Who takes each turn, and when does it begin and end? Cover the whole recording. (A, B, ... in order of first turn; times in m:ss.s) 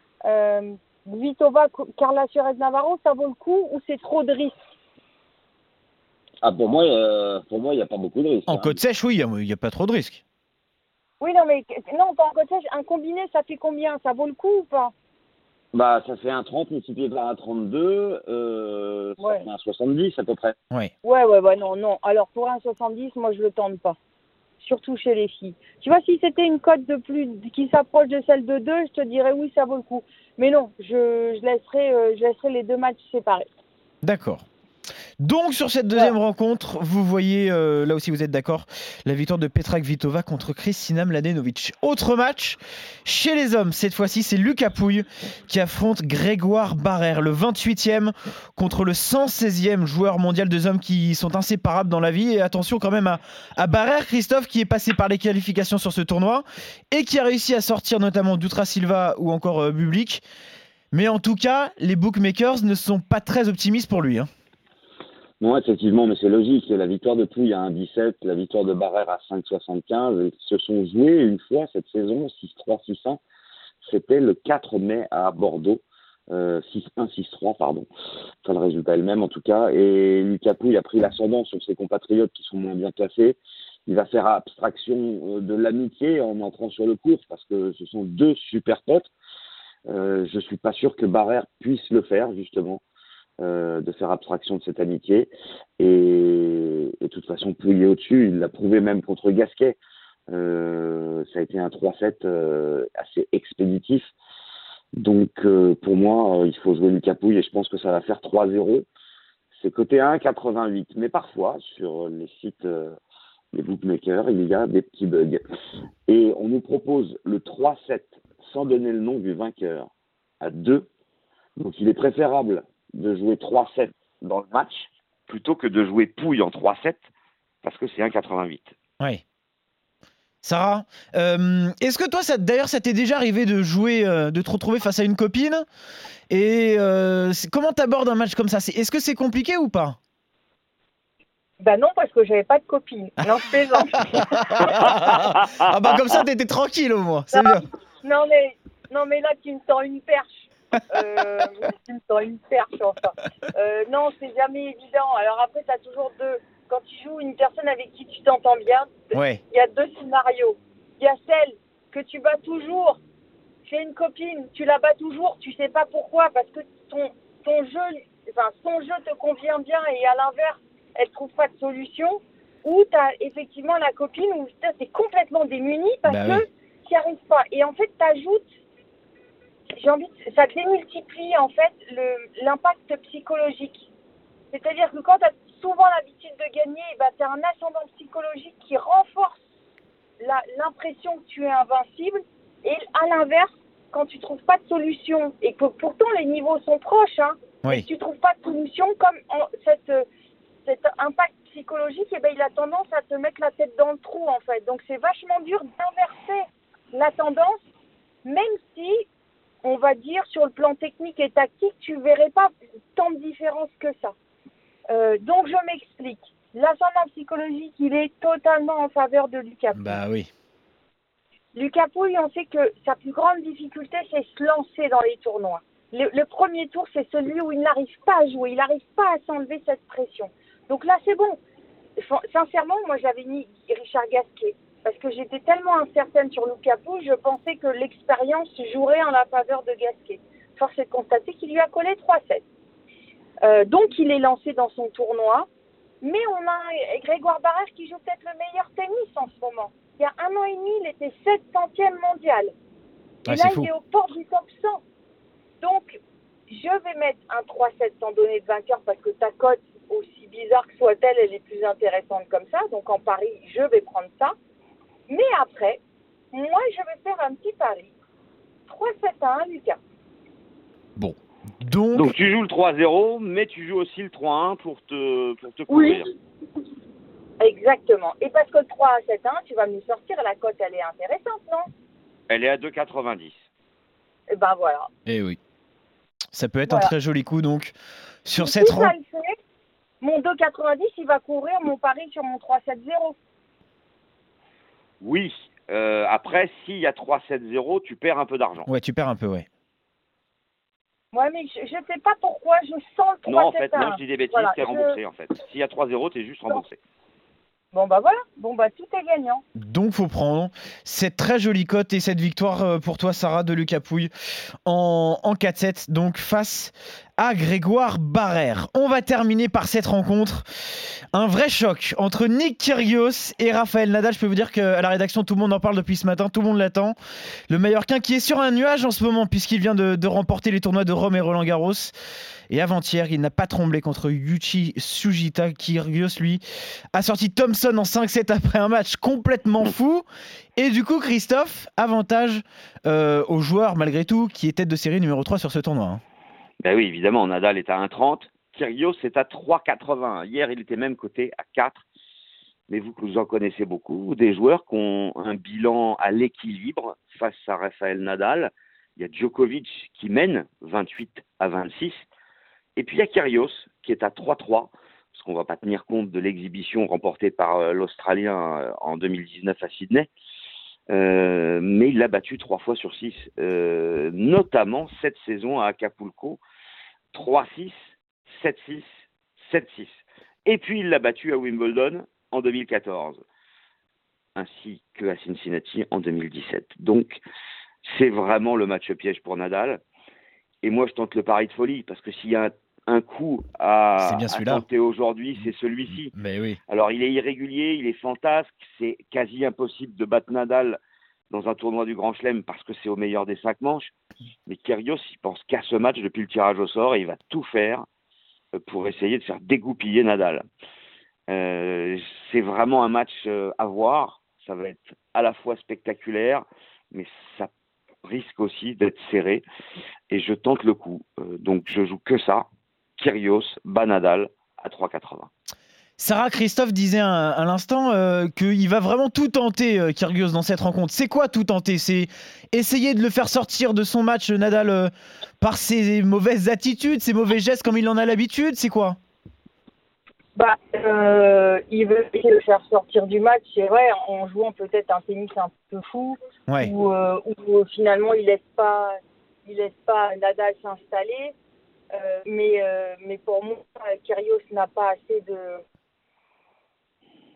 0:00.2-0:04.6 A
0:06.4-0:08.8 B
0:08.5-0:10.2 C
0:11.2-0:14.9 A
0:15.7-0:20.6 B
0:19.2-0:19.4 A
0:21.0-0:24.0 A
0:24.6-0:33.4 A
0:34.0-0:34.4 C
0:35.2-1:00.2 C
1:00.9-1:04.3 C
1:05.4-1:13.2 B
1:13.8-1:17.9 B
1:18.4-1:29.1 B
1:29.9-1:32.8 B
1:33.4-1:39.8 B
1:40.3-1:44.1 B
1:45.0-1:48.9 B
1:49.5-1:53.0 B
1:53.5-1:55.4 B
1:56.1-1:59.9 B
2:00.4-2:00.9 B
2:01.6-2:07.0 B
2:07.6-2:08.7 B
2:10.4-2:15.6 C
2:16.3-2:20.0 C
2:21.6-2:24.8 A
2:24.1-2:27.6 C
2:24.7-2:25.5 B
2:27.3-2:43.0 A
2:39.1-2:39.4 C
2:43.6-2:58.5 A
2:56.0-2:56.4 C
2:59.7-3:03.9 A
3:04.5-3:09.4 A
3:10.2-3:20.0 A
3:20.6-3:27.6 A
3:28.2-3:29.1 A
3:29.6-3:34.1 A
3:34.9-3:40.0 A
3:39.7-3:40.3 C
3:41.5-3:51.4 A
3:52.0-4:02.4 A
4:03.4-4:05.5 A
4:06.0-4:12.5 A
4:13.3-4:13.7 C
4:13.3-4:14.8 A
4:15.6-4:24.3 A
4:25.1-4:25.8 A
4:26.3-4:27.9 A
4:28.7-4:29.8 A
4:31.0-4:32.1 C
4:31.9-4:36.1 B
4:35.7-4:36.0 A
4:37.4-4:41.6 A
4:42.3-4:43.4 B
4:44.3-4:44.9 A
4:45.1-4:45.4 C
4:46.3-4:47.7 C
4:46.7-4:46.9 A
4:48.2-4:48.9 C
4:48.4-4:49.4 A
4:50.0-4:53.2 A
4:55.0-4:58.7 B
4:58.7-4:59.4 C
5:01.1-5:05.0 A
5:03.2-5:06.8 B
5:07.7-5:09.4 A
5:09.5-5:14.1 C
5:14.6-5:20.4 C
5:21.1-5:27.0 C
5:27.5-5:31.9 C
5:32.5-5:40.0 C
5:40.6-5:46.0 C
5:46.6-5:51.8 B
5:52.7-6:02.0 B
6:02.8-6:10.1 B
6:10.9-6:16.4 B
6:17.1-6:17.8 B
6:18.3-6:18.9 B
6:19.4-6:23.2 B
6:24.4-6:27.2 B
6:27.8-6:29.8 B
6:30.6-6:36.1 B
6:34.0-6:34.6 C
6:36.1-6:36.6 C
6:36.7-6:40.8 B
6:41.3-6:43.9 B
6:44.5-6:47.8 B
6:48.6-6:50.4 B
6:51.3-6:57.5 B
6:58.0-6:59.4 B
7:00.1-7:02.4 B
7:03.0-7:05.3 B
7:06.0-7:19.0 C
7:20.3-7:31.3 A
7:31.9-7:35.6 A